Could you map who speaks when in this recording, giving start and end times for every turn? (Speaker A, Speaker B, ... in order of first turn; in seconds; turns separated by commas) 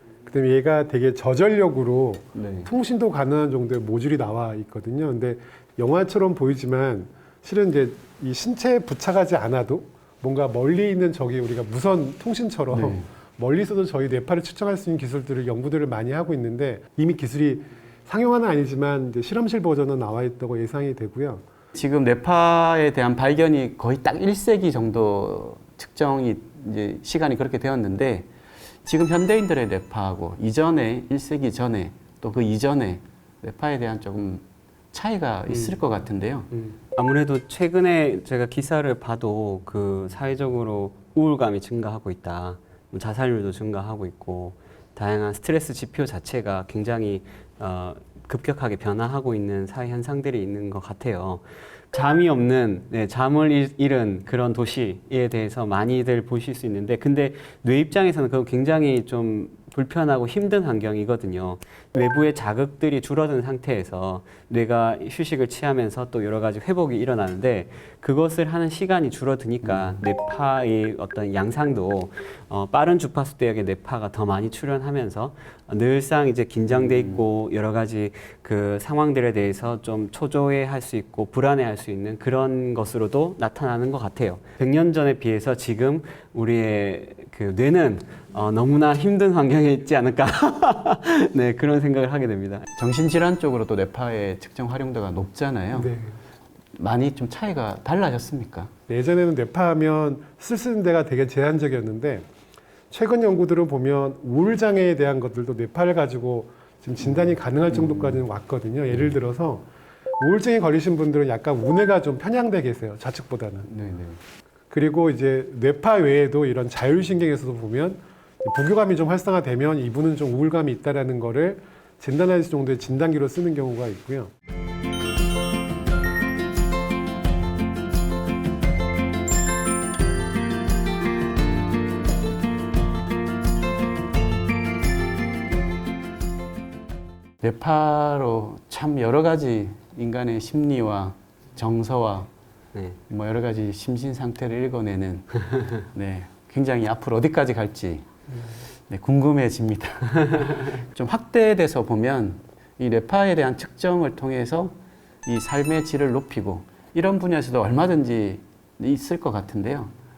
Speaker A: 0.2-21.4, Speaker B: 2.3-2.7, Speaker B: 12.7-13.0, Speaker B: 21.7-28.3, Speaker B: 28.9-36.5, Speaker C: 35.5-35.8, Speaker C: 36.5-92.7, Speaker B: 69.6-70.0, Speaker B: 76.7-77.2, Speaker B: 92.8-95.9, Speaker A: 95.7-96.2, Speaker B: 96.7-98.7, Speaker A: 98.9-102.2, Speaker A: 102.9-109.7, Speaker B: 107.0-108.2, Speaker A: 110.2-113.7, Speaker B: 113.7-114.2, Speaker A: 114.7-124.3, Speaker B: 137.4-142.3, Speaker B: 143.1-148.1, Speaker B: 148.9-154.7, Speaker B: 155.2-159.9